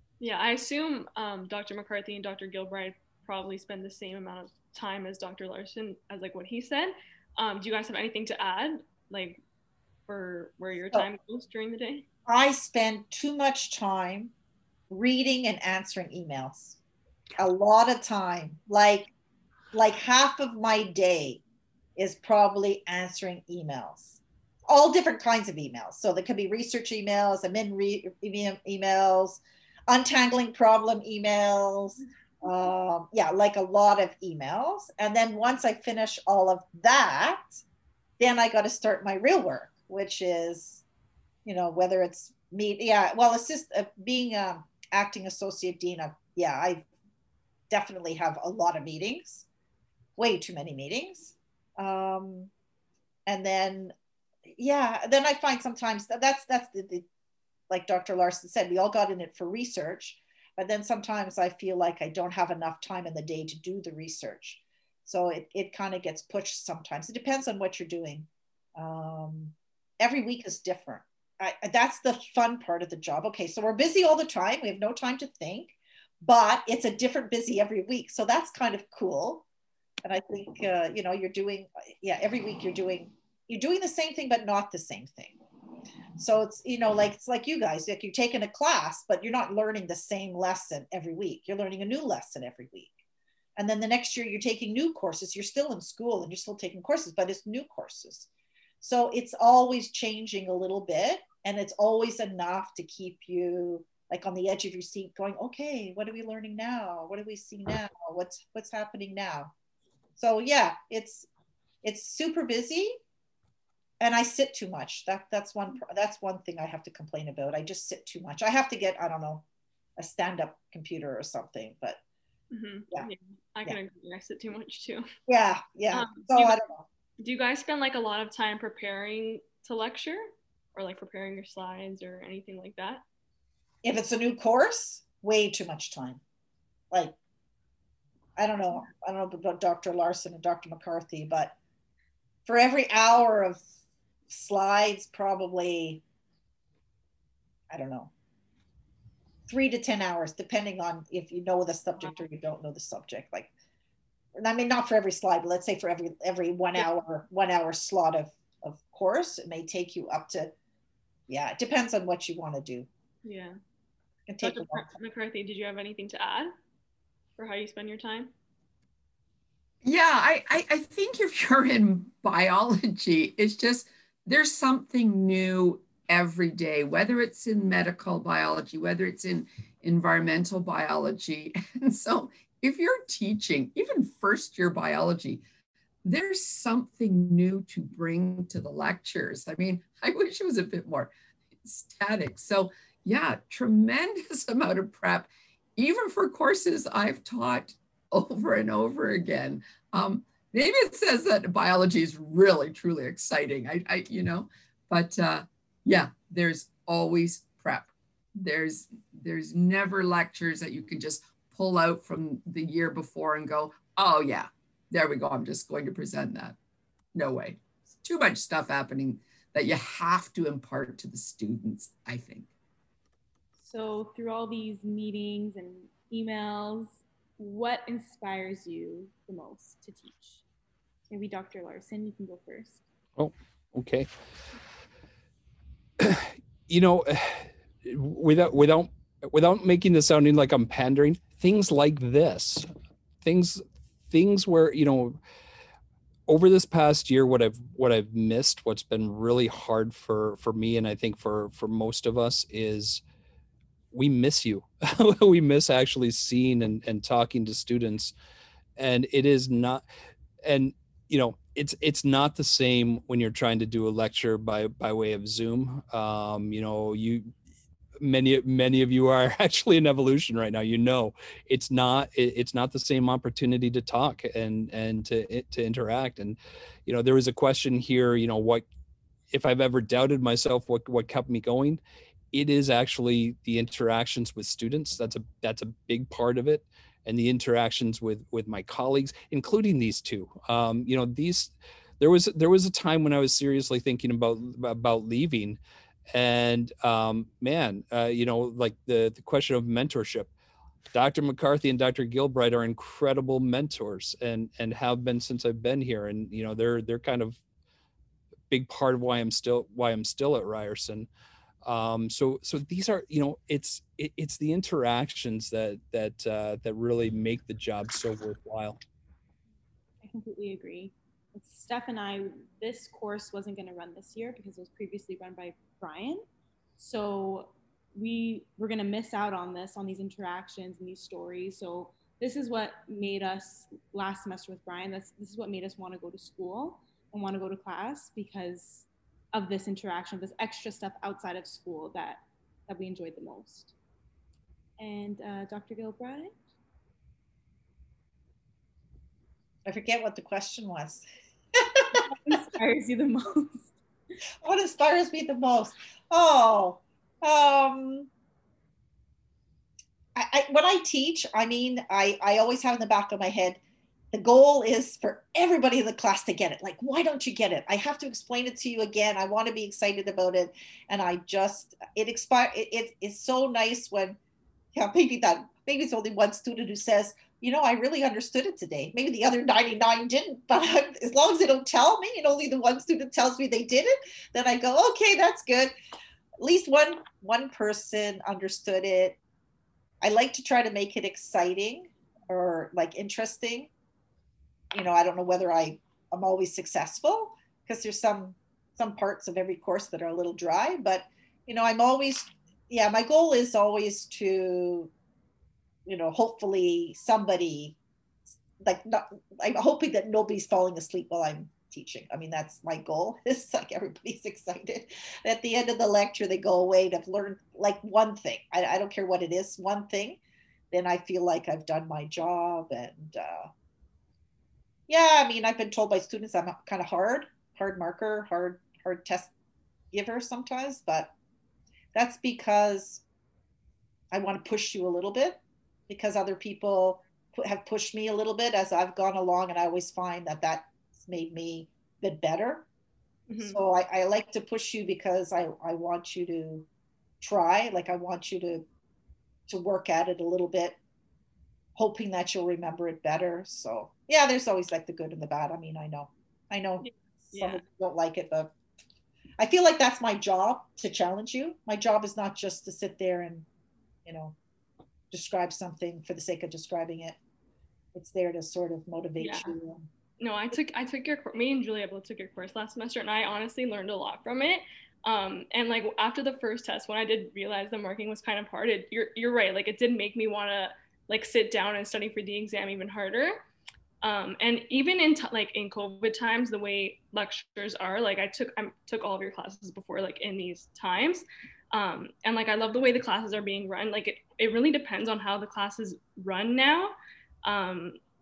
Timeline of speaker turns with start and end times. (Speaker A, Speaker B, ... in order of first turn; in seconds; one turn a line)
Speaker A: 0.2-9.4
Speaker A: 10.1-12.1
Speaker B: 12.3-14.3
Speaker B: 14.9-16.8
Speaker B: 17.4-19.1
Speaker B: 19.7-21.4
Speaker B: 21.9-37.6
Speaker B: 38.2-40.8
Speaker B: 41.4-46.9
Speaker B: 47.7-49.5
Speaker B: 50.2-52.5
Speaker B: 53.2-53.9
Speaker B: 54.5-57.0
Speaker B: 57.7-79.4
Speaker B: 80.0-85.3
Speaker B: 86.2-92.9
Speaker B: 93.6-98.3
Speaker B: 98.8-109.5
Speaker B: 110.2-111.3
Speaker B: 111.8-113.0
Speaker B: 114.0-119.4
Speaker B: 120.0-122.0
Speaker A: 122.5-125.1
Speaker B: 125.3-126.8
Speaker A: 125.9-126.6
Speaker A: 127.2-133.0
Speaker B: 133.8-136.2
Speaker B: 136.9-137.2
Speaker B: 138.4-141.6
Speaker B: 142.4-143.6
Speaker B: 144.3-146.0
Speaker B: 147.7-148.1
Speaker B: 149.5-153.5
Speaker B: 154.4-160.5
Speaker B: 161.3-162.9
Speaker A: 163.2-163.6
Speaker B: 164.3-164.9
Speaker A: 164.4-166.5
Speaker A: 167.4-168.3
Speaker C: 169.8-185.4
Speaker C: 186.0-216.6
Speaker C: 217.1-222.5
Speaker D: 223.6-230.4
Speaker D: 231.1-232.8
Speaker E: 233.2-234.1
Speaker E: 236.0-242.7
Speaker E: 243.2-245.2
Speaker E: 246.3-253.0
Speaker E: 253.9-258.1
Speaker E: 258.8-259.8
Speaker E: 260.4-267.3
Speaker E: 268.0-278.6
Speaker E: 279.3-281.8
Speaker E: 282.3-295.6
Speaker E: 296.1-300.3
Speaker E: 300.9-307.4
Speaker E: 308.5-311.1
Speaker E: 311.6-318.8
Speaker D: 320.0-326.2
Speaker D: 326.8-343.7
Speaker D: 344.8-346.4
Speaker B: 349.6-351.0
Speaker B: 351.5-352.0
Speaker D: 351.9-353.8
Speaker B: 354.4-358.1
Speaker B: 360.1-363.6
Speaker B: 364.1-374.2
Speaker B: 374.7-385.7
Speaker B: 386.4-389.2
Speaker B: 390.0-393.7
Speaker B: 394.7-404.9
Speaker B: 405.9-407.8
Speaker B: 408.6-420.2
Speaker B: 420.7-423.5
Speaker B: 424.9-429.3
Speaker B: 429.9-431.1
Speaker B: 431.9-433.0
Speaker B: 434.1-442.7
Speaker A: 443.3-443.6
Speaker B: 443.4-446.7
Speaker B: 447.2-448.6
Speaker B: 449.5-450.8
Speaker B: 451.8-458.5
Speaker A: 456.8-457.6
Speaker B: 459.4-463.4
Speaker B: 464.1-464.3
Speaker B: 465.1-467.2
Speaker B: 467.9-469.9
Speaker A: 469.2-469.5
Speaker A: 470.2-483.4
Speaker A: 484.0-498.0